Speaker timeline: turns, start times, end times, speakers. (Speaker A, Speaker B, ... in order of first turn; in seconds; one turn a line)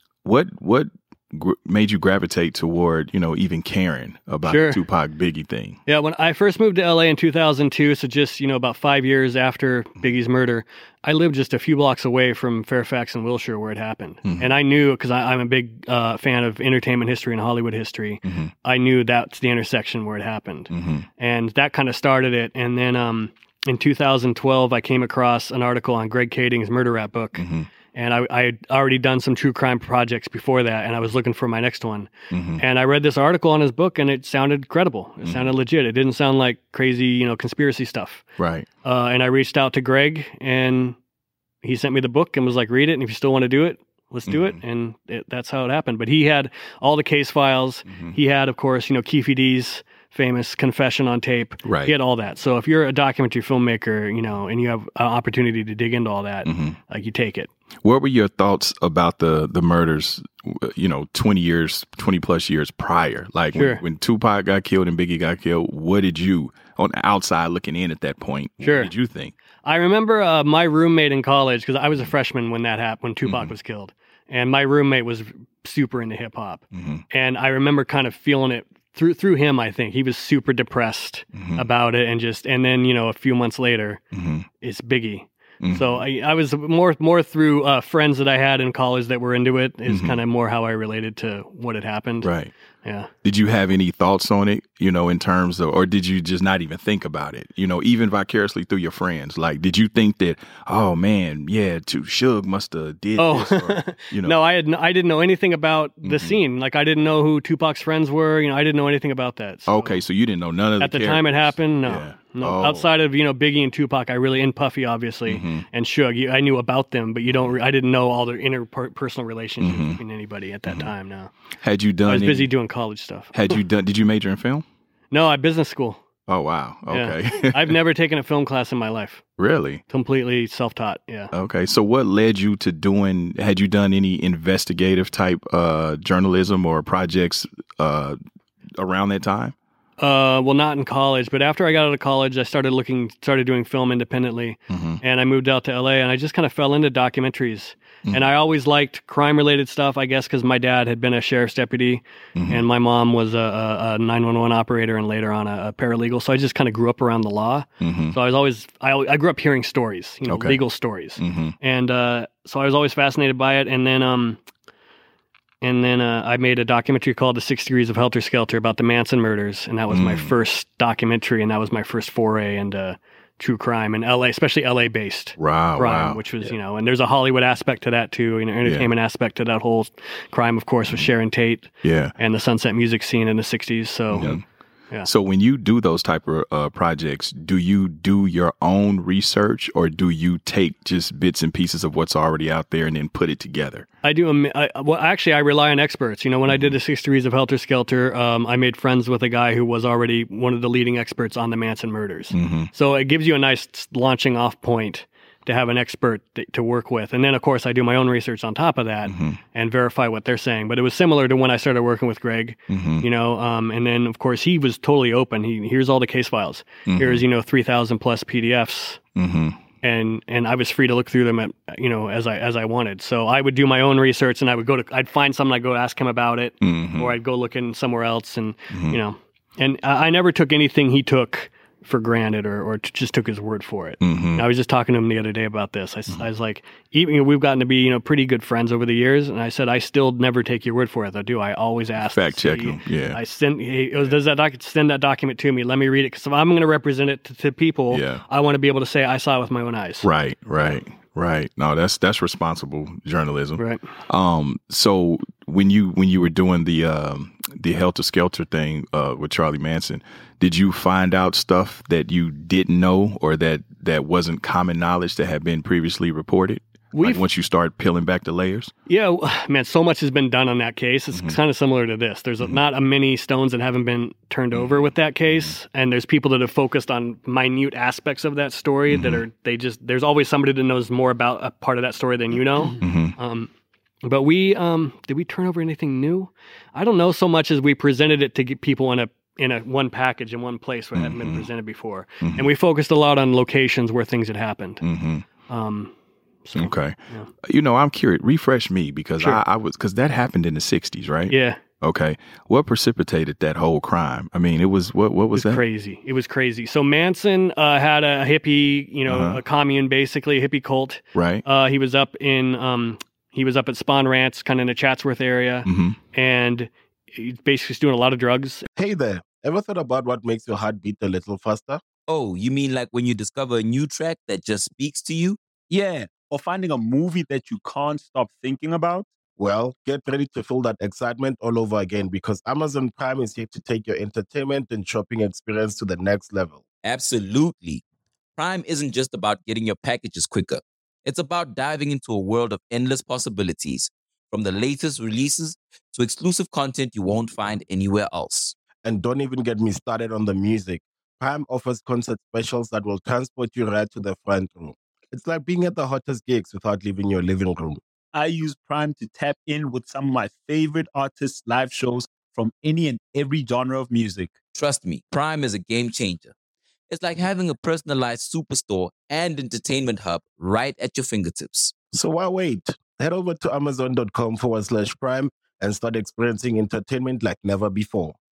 Speaker A: 0.2-5.8
Speaker B: 4.4-4.8
Speaker B: 5.9-38.2
Speaker A: 14.2-14.5
Speaker A: 18.2-18.5
Speaker A: 20.7-21.1
Speaker A: 27.4-27.7
Speaker A: 32.3-32.6
Speaker A: 35.2-35.5
Speaker A: 38.4-38.7
Speaker B: 38.8-41.0
Speaker B: 41.6-57.5
Speaker A: 44.3-44.6
Speaker A: 47.9-48.1
Speaker A: 51.6-51.9
Speaker A: 56.4-56.8
Speaker A: 57.8-69.3
Speaker B: 63.5-63.8
Speaker B: 68.6-68.9
Speaker B: 69.6-84.0
Speaker A: 73.2-73.5
Speaker A: 76.7-77.0
Speaker A: 81.3-81.7
Speaker A: 84.1-84.5
Speaker B: 84.6-92.3
Speaker A: 85.6-86.0
Speaker A: 89.9-90.2
Speaker A: 92.2-92.5
Speaker B: 92.8-93.1
Speaker A: 93.2-104.4
Speaker B: 103.2-110.0
Speaker A: 106.0-106.4
Speaker A: 109.7-112.9
Speaker B: 110.8-121.3
Speaker A: 115.3-115.7
Speaker A: 119.6-120.0
Speaker A: 120.7-120.9
Speaker A: 121.6-122.5
Speaker B: 122.1-123.6
Speaker A: 123.3-124.6
Speaker B: 125.1-126.0
Speaker A: 126.3-127.8
Speaker B: 126.9-129.2
Speaker A: 129.4-129.8
Speaker B: 129.9-131.3
Speaker A: 131.3-138.2
Speaker A: 138.8-139.5
Speaker B: 140.0-164.4
Speaker A: 144.7-145.0
Speaker A: 152.4-152.6
Speaker A: 157.8-158.2
Speaker A: 160.3-160.6
Speaker A: 161.2-161.5
Speaker B: 165.6-184.4
Speaker A: 169.9-170.3
Speaker A: 175.4-176.2
Speaker A: 178.6-178.9
Speaker A: 181.8-182.1
Speaker A: 184.1-184.4
Speaker A: 185.0-193.9
Speaker B: 194.0-219.0
Speaker A: 196.5-196.8
Speaker A: 202.3-202.7
Speaker A: 209.1-209.4
Speaker A: 212.7-213.1
Speaker A: 216.9-217.2
Speaker A: 219.1-219.6
Speaker B: 219.8-250.1
Speaker A: 226.6-227.1
Speaker A: 228.7-229.0
Speaker A: 234.0-234.4
Speaker A: 242.0-243.2
Speaker A: 247.9-248.2
Speaker A: 250.0-268.7
Speaker B: 253.6-253.8
Speaker B: 266.9-267.2
Speaker B: 268.9-283.5
Speaker A: 271.1-271.4
Speaker A: 274.5-275.5
Speaker A: 278.9-279.2
Speaker A: 282.8-283.1
Speaker B: 284.0-294.8
Speaker A: 290.9-291.5
Speaker A: 292.2-292.5
Speaker A: 294.8-295.2
Speaker B: 295.5-295.9
Speaker B: 296.4-297.3
Speaker A: 296.6-305.6
Speaker B: 301.3-301.6
Speaker B: 305.3-318.7
Speaker A: 309.1-309.4
Speaker A: 311.1-311.4
Speaker A: 315.6-316.0
Speaker C: 318.8-321.8
Speaker D: 322.1-325.4
Speaker E: 325.7-329.1
Speaker C: 329.4-336.6
Speaker D: 336.8-337.8
Speaker D: 338.4-348.5
Speaker C: 348.8-357.8
Speaker E: 358.1-364.3
Speaker D: 364.5-366.3
Speaker D: 366.9-371.7
Speaker C: 371.9-378.2